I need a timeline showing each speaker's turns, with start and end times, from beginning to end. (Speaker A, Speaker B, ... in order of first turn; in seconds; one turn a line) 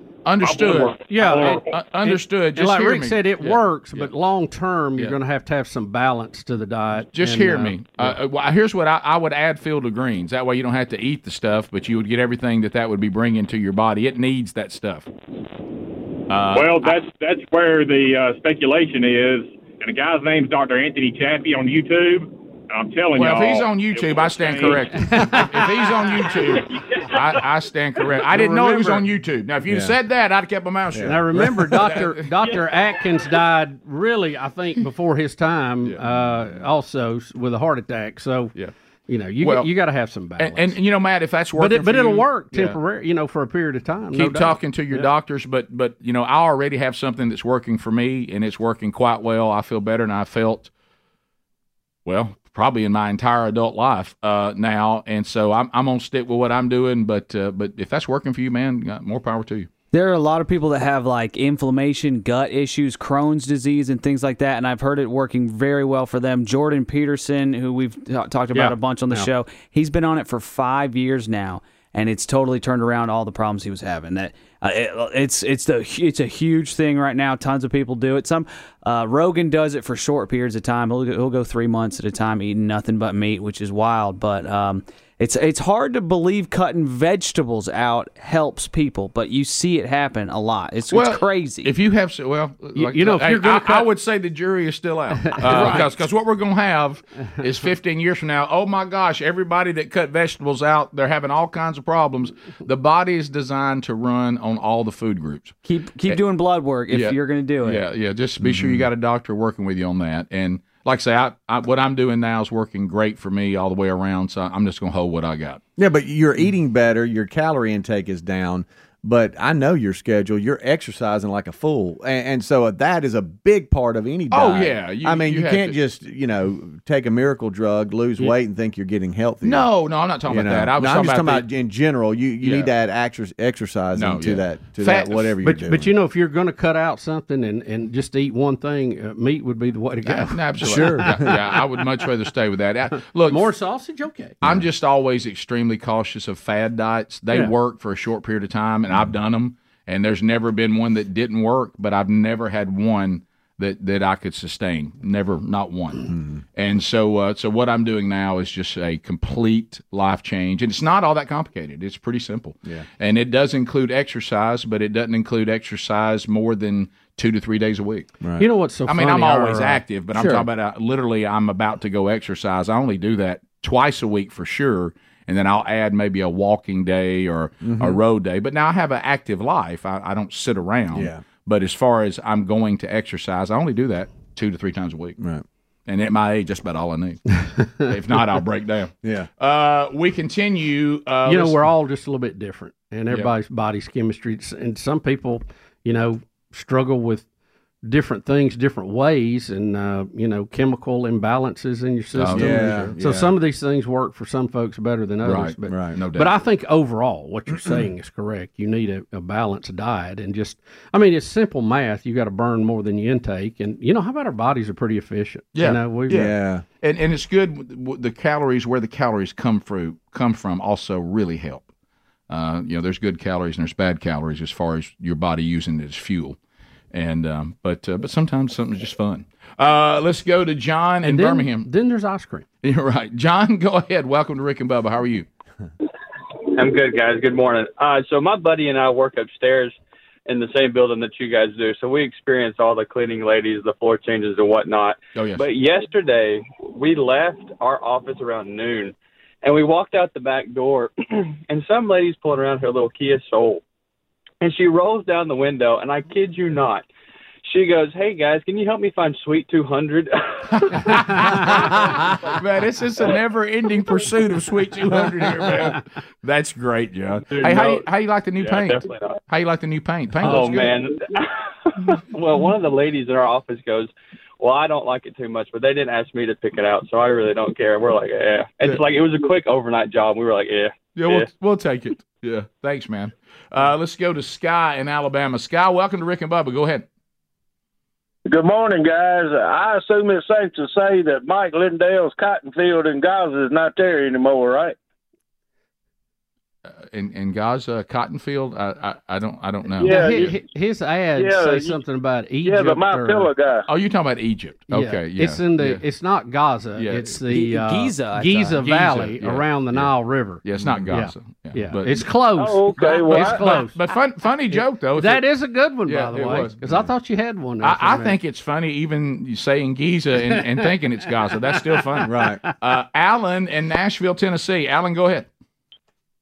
Speaker A: 0.2-4.1
Speaker B: 0.4-1.8
Speaker C: 1.1-8.2
Speaker A: 7.1-15.1
Speaker A: 16.3-17.0
Speaker B: 16.5-24.9
Speaker A: 23.1-32.3
Speaker C: 25.0-25.5
Speaker B: 26.6-27.4
Speaker C: 28.3-29.0
Speaker D: 29.7-29.9
Speaker D: 30.9-31.3
Speaker C: 31.1-38.5
Speaker C: 39.1-40.7
Speaker A: 39.4-39.7
Speaker A: 40.4-42.8
Speaker C: 41.6-45.1
Speaker A: 44.1-50.7
Speaker A: 52.1-59.7
Speaker E: 59.9-91.7
Speaker C: 68.5-69.3
Speaker A: 90.9-105.6
Speaker C: 92.8-93.9
Speaker C: 95.2-95.9
Speaker E: 105.7-107.8
Speaker A: 106.9-115.6
Speaker D: 108.4-108.9
Speaker D: 115.8-129.7
Speaker A: 124.3-125.8
Speaker A: 129.4-131.5
Speaker D: 130.3-135.9
Speaker A: 132.4-132.7
Speaker A: 133.9-135.3
Speaker C: 135.4-141.3
Speaker A: 140.1-143.5
Speaker D: 140.6-141.3
Speaker C: 143.3-144.4
Speaker A: 144.4-168.1
Speaker D: 156.1-156.4
Speaker D: 168.2-168.5
Speaker C: 168.4-169.8
Speaker A: 168.9-185.2
Speaker D: 170.2-170.4
Speaker D: 177.6-178.0
Speaker D: 180.9-181.2
Speaker D: 185.2-185.4
Speaker A: 185.9-187.2
Speaker A: 187.8-191.6
Speaker D: 189.0-189.3
Speaker C: 191.3-197.3
Speaker C: 197.8-216.2
Speaker A: 202.2-202.9
Speaker D: 202.3-203.3
Speaker A: 205.2-206.3
Speaker D: 205.7-205.9
Speaker A: 215.6-221.7
Speaker D: 216.1-216.6
Speaker A: 222.3-226.4
Speaker A: 226.9-231.7
Speaker C: 231.0-232.4
Speaker A: 232.6-235.3
Speaker F: 236.6-239.8
Speaker F: 240.3-253.6
Speaker A: 245.2-245.4
Speaker F: 254.4-256.9
Speaker F: 257.4-260.9
Speaker A: 260.6-270.8
Speaker C: 261.0-261.4
Speaker F: 267.3-267.9
Speaker F: 268.4-269.2
Speaker C: 270.2-270.6
Speaker F: 270.2-281.3
Speaker A: 281.0-286.9
Speaker G: 288.3-294.8
Speaker A: 296.7-300.3
Speaker G: 299.8-300.4
Speaker C: 299.8-303.3
Speaker G: 301.2-301.8
Speaker G: 302.4-303.7
Speaker A: 303.7-305.8
Speaker C: 304.7-313.8
Speaker A: 306.8-307.2
Speaker E: 307.3-308.6
Speaker A: 308.5-309.9
Speaker A: 310.4-312.0
Speaker D: 310.6-310.9
Speaker G: 312.4-313.5
Speaker A: 312.8-315.2
Speaker C: 315.0-318.2
Speaker A: 315.9-316.6
Speaker A: 317.6-325.3
Speaker D: 322.0-322.4